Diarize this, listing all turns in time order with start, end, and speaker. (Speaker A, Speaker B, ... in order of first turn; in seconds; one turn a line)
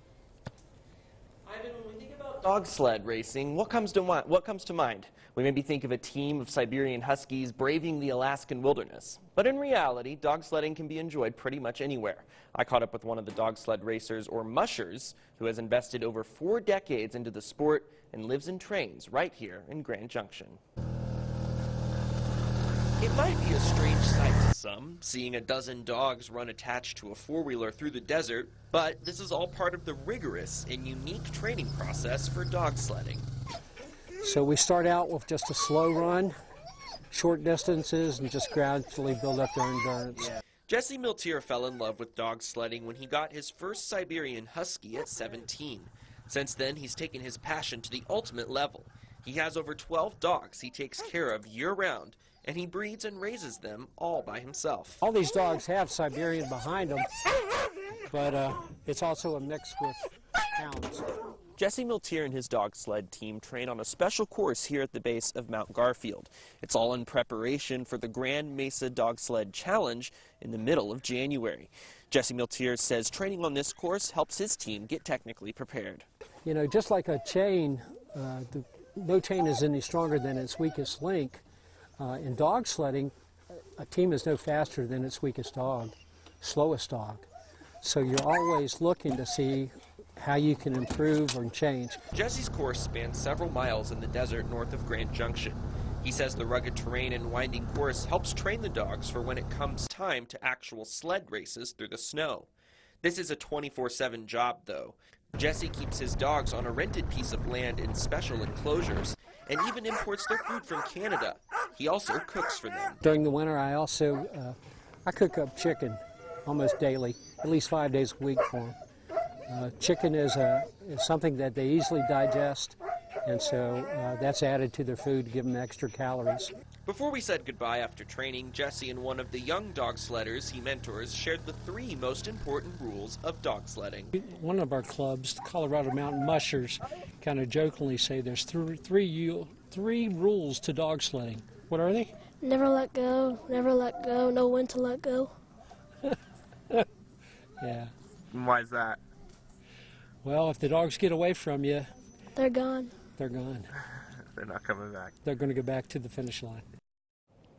Speaker A: 1.4-20.6
Speaker A: 23.0-33.3
Speaker B: 34.3-36.3
Speaker B: 37.1-40.1
Speaker A: 40.1-55.0
Speaker B: 55.0-57.1
Speaker B: 58.1-61.1
Speaker A: 61.6-76.1
Speaker B: 76.4-81.4
Speaker B: 82.0-83.1
Speaker B: 83.8-87.3
Speaker B: 87.8-92.0
Speaker A: 92.1-102.5
Speaker A: 103.0-113.0
Speaker B: 113.0-118.8
Speaker B: 119.5-126.5
Speaker A: 126.8-134.1
Speaker B: 134.1-142.1
Speaker C: 142.3-145.3
Speaker B: 147.6-147.9
Speaker A: 148.3-149.0
Speaker B: 150.2-151.9
Speaker C: 152.3-153.0
Speaker B: 153.2-153.7
Speaker A: 154.0-155.2
Speaker B: 155.2-156.6